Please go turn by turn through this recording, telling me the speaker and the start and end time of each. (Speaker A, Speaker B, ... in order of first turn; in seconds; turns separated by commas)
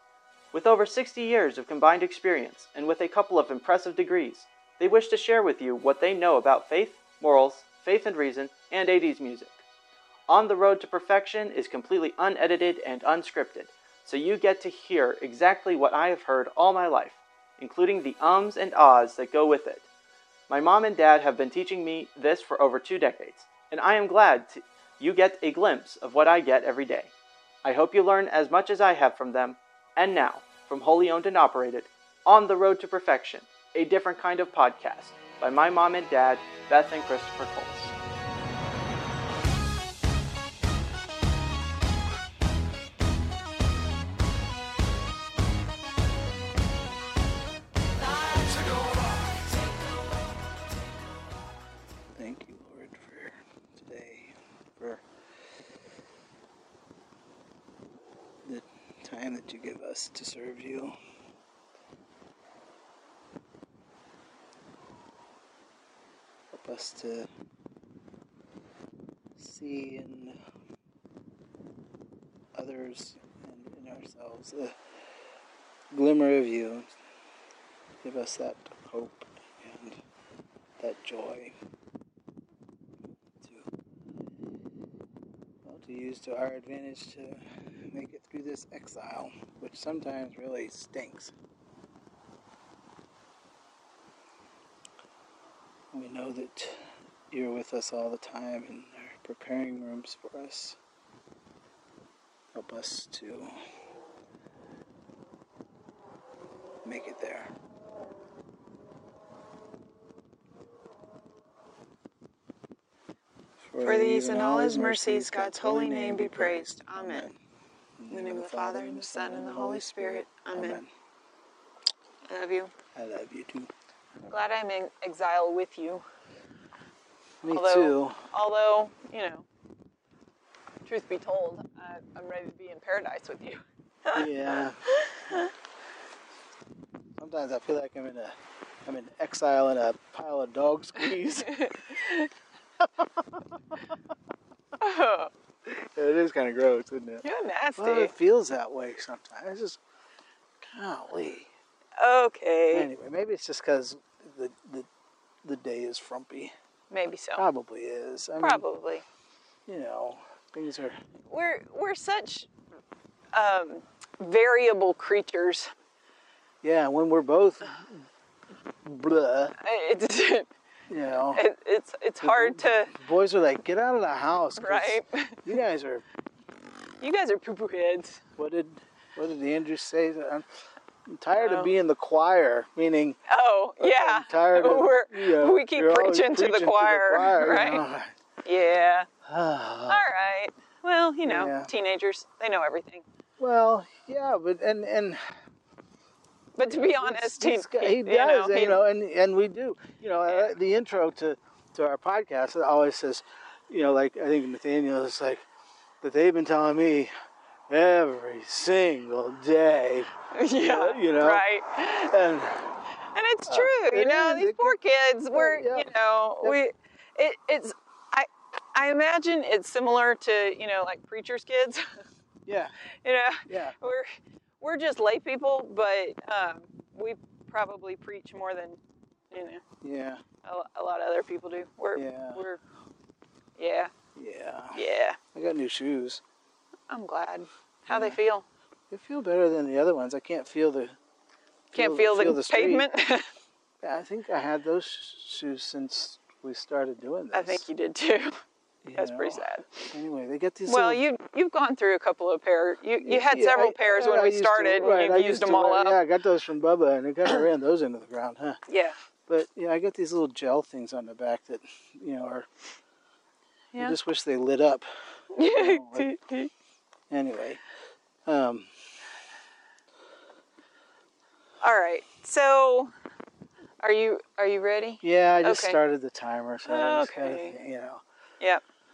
Speaker A: 0.5-9.6, Speaker A: 10.3-19.9, Speaker A: 20.5-27.1, Speaker A: 27.6-37.9, Speaker B: 52.1-55.0, Speaker B: 58.4-60.9, Speaker B: 66.5-67.3, Speaker B: 69.4-70.4, Speaker B: 72.5-74.8, Speaker B: 75.9-76.9, Speaker B: 78.0-80.0, Speaker B: 80.8-81.5, Speaker B: 83.4-83.7, Speaker B: 85.6-91.3, Speaker B: 95.9-100.8, Speaker B: 102.5-103.5, Speaker B: 106.8-107.5, Speaker B: 113.7-117.4, Speaker C: 113.8-117.3, Speaker B: 118.0-120.9, Speaker C: 118.1-120.8, Speaker C: 122.3-122.7, Speaker B: 123.0-123.7, Speaker C: 124.2-126.0, Speaker B: 127.4-128.2, Speaker C: 127.5-129.4, Speaker C: 130.8-134.2, Speaker B: 134.1-135.4, Speaker C: 134.9-135.5, Speaker B: 137.2-141.6, Speaker C: 141.4-142.3, Speaker B: 142.8-143.4, Speaker C: 144.8-145.3, Speaker B: 145.7-147.2, Speaker C: 147.2-148.1, Speaker B: 147.8-149.8, Speaker B: 150.6-151.5, Speaker C: 152.0-152.9, Speaker B: 152.7-154.9, Speaker B: 155.4-156.5, Speaker C: 156.9-157.4, Speaker B: 157.3-158.6, Speaker C: 158.4-159.0, Speaker B: 159.7-161.0, Speaker C: 161.3-162.5, Speaker C: 163.3-165.7, Speaker B: 166.6-168.1, Speaker B: 168.8-169.5, Speaker C: 169.6-170.5, Speaker B: 170.9-171.4, Speaker C: 171.3-172.9, Speaker B: 172.2-176.0, Speaker C: 174.6-175.5, Speaker C: 177.0-178.2, Speaker B: 178.4-180.4, Speaker B: 181.1-183.2, Speaker C: 181.3-181.7, Speaker C: 183.3-187.8, Speaker B: 183.8-188.2, Speaker C: 188.4-189.1, Speaker B: 189.2-190.1, Speaker C: 189.9-193.0, Speaker B: 191.2-191.7, Speaker B: 193.4-195.2, Speaker C: 196.6-198.8, Speaker B: 196.7-205.4, Speaker B: 206.0-207.1, Speaker B: 207.7-212.8, Speaker C: 210.3-212.1, Speaker C: 213.1-221.8, Speaker B: 213.5-214.8, Speaker B: 215.3-215.9, Speaker B: 222.4-222.7, Speaker C: 223.0-224.1, Speaker B: 223.5-223.8, Speaker C: 224.6-228.8, Speaker C: 229.3-229.6, Speaker B: 229.8-230.2, Speaker C: 230.4-232.6, Speaker B: 231.9-232.4, Speaker C: 233.6-233.9, Speaker B: 234.2-234.8, Speaker C: 234.8-235.2, Speaker B: 235.3-236.2, Speaker C: 236.9-238.4, Speaker B: 237.9-238.2, Speaker B: 238.9-240.9, Speaker B: 241.7-242.9, Speaker C: 241.7-243.3, Speaker B: 243.8-247.6, Speaker C: 247.3-248.4, Speaker B: 248.8-251.0, Speaker C: 249.0-249.9, Speaker C: 250.7-256.0, Speaker B: 253.0-258.6, Speaker C: 258.7-258.9, Speaker B: 259.3-262.5, Speaker B: 263.8-266.1, Speaker C: 265.3-266.5, Speaker B: 267.1-267.6, Speaker B: 268.2-268.7, Speaker C: 271.6-272.9, Speaker C: 273.8-275.8, Speaker B: 275.0-278.0, Speaker C: 276.7-277.6